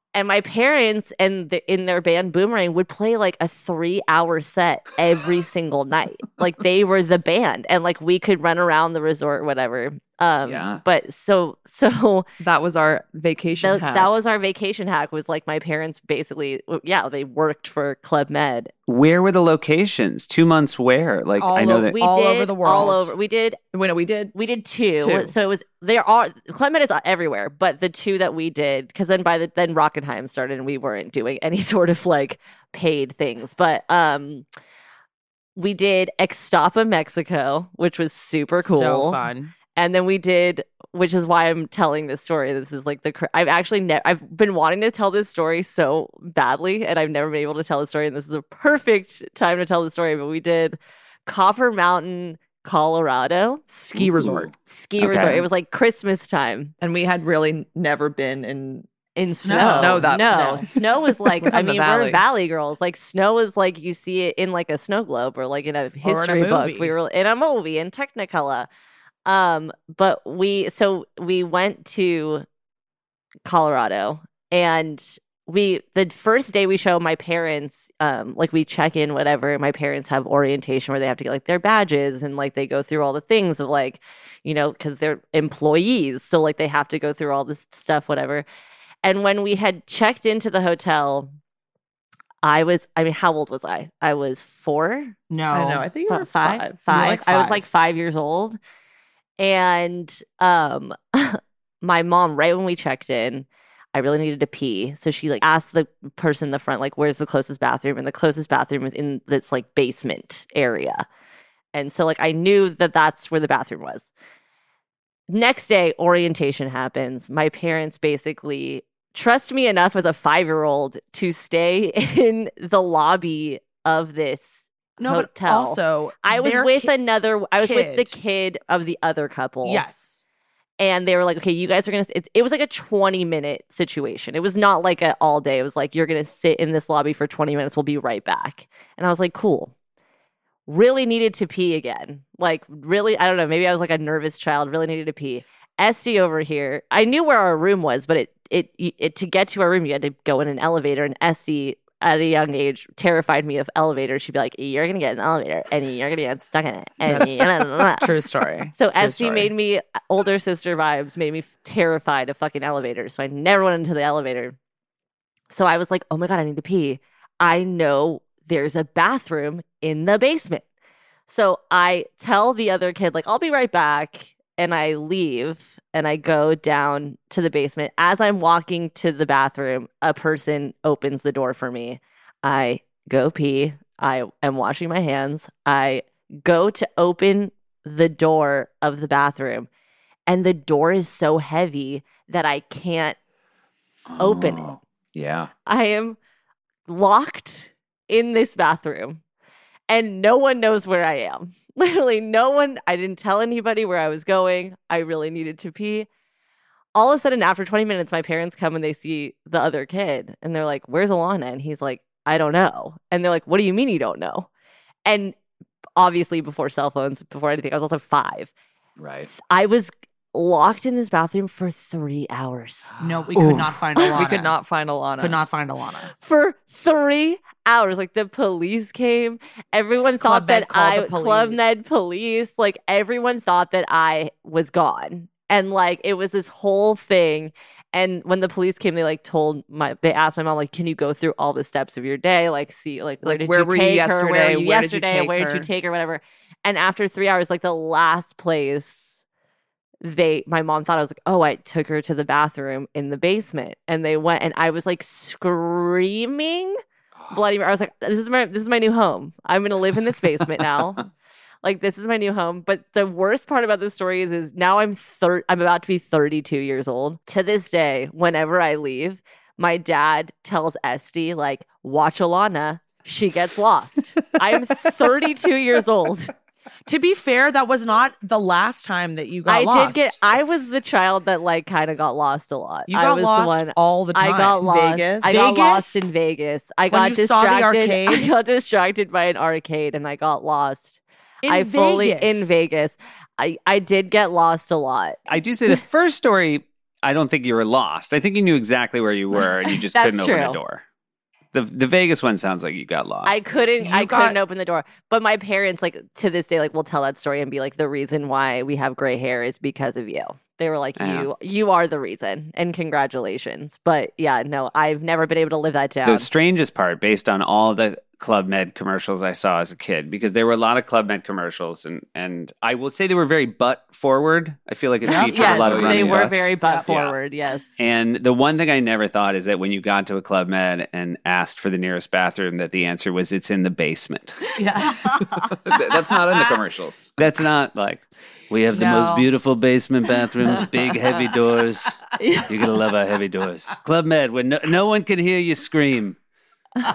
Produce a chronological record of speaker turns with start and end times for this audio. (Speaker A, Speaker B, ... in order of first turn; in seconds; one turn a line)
Speaker A: 0.1-12.3
Speaker B: 10.4-10.8
Speaker C: 12.4-14.1
Speaker A: 13.6-18.7
Speaker D: 18.9-22.0
Speaker E: 21.4-23.1
Speaker A: 21.7-23.6
Speaker C: 23.7-24.3
Speaker A: 24.4-34.5
Speaker C: 25.0-25.3
Speaker A: 35.6-39.2
Speaker E: 38.6-39.5
Speaker A: 39.8-53.6
Speaker E: 53.7-54.5
Speaker B: 54.0-54.5
Speaker A: 54.7-56.7
Speaker C: 56.8-58.9
Speaker A: 59.2-68.7
Speaker E: 59.4-60.6
Speaker C: 59.4-62.2
Speaker E: 66.0-67.0
Speaker A: 69.3-72.5
Speaker A: 73.5-88.5
Speaker A: 89.0-91.3
Speaker A: 92.4-95.2
Speaker E: 95.3-95.9
Speaker C: 95.5-96.9
Speaker A: 96.1-98.6
Speaker E: 96.9-97.7
Speaker A: 99.4-111.1
Speaker A: 111.7-114.1
Speaker A: 115.3-129.8
Speaker E: 125.0-126.9
Speaker E: 127.6-128.2
Speaker E: 129.6-130.2
Speaker A: 130.8-139.7
Speaker A: 140.7-158.2
Speaker E: 157.1-159.5
Speaker A: 158.8-164.6
Speaker A: 165.5-170.6
Speaker A: 171.3-189.7
Speaker A: 190.3-193.2
Speaker B: 194.1-195.5
Speaker A: 194.2-194.8
Speaker A: 195.7-196.2
Speaker A: 196.9-199.2
Speaker A: 199.9-206.1
Speaker A: 206.9-214.5
Speaker A: 215.1-215.3
Speaker A: 216.0-218.5
Speaker B: 219.0-219.3
Speaker A: 219.3-222.9
Speaker E: 223.0-224.5
Speaker A: 224.0-224.3
Speaker C: 224.1-225.4
Speaker E: 225.2-226.1
Speaker A: 226.2-249.2
Speaker E: 230.2-231.8
Speaker C: 243.2-245.7
Speaker A: 250.0-256.8
Speaker A: 257.3-261.1
Speaker A: 261.6-276.3
Speaker E: 276.9-280.2
Speaker A: 279.5-295.3
Speaker E: 282.9-284.6
Speaker C: 284.6-285.4
Speaker E: 285.2-286.1
Speaker E: 286.9-288.3
Speaker E: 291.4-292.6
Speaker D: 295.3-300.8
Speaker A: 299.6-300.6
Speaker D: 301.5-303.4
Speaker A: 303.2-316.3
Speaker E: 303.8-304.4
Speaker D: 311.0-311.3
Speaker D: 316.0-327.1
Speaker E: 325.1-325.6
Speaker A: 325.1-327.7
Speaker B: 325.3-326.3
Speaker D: 327.8-334.4
Speaker E: 334.6-335.4
Speaker B: 335.6-337.1
Speaker D: 337.2-346.2
Speaker E: 338.7-339.3
Speaker A: 342.2-342.5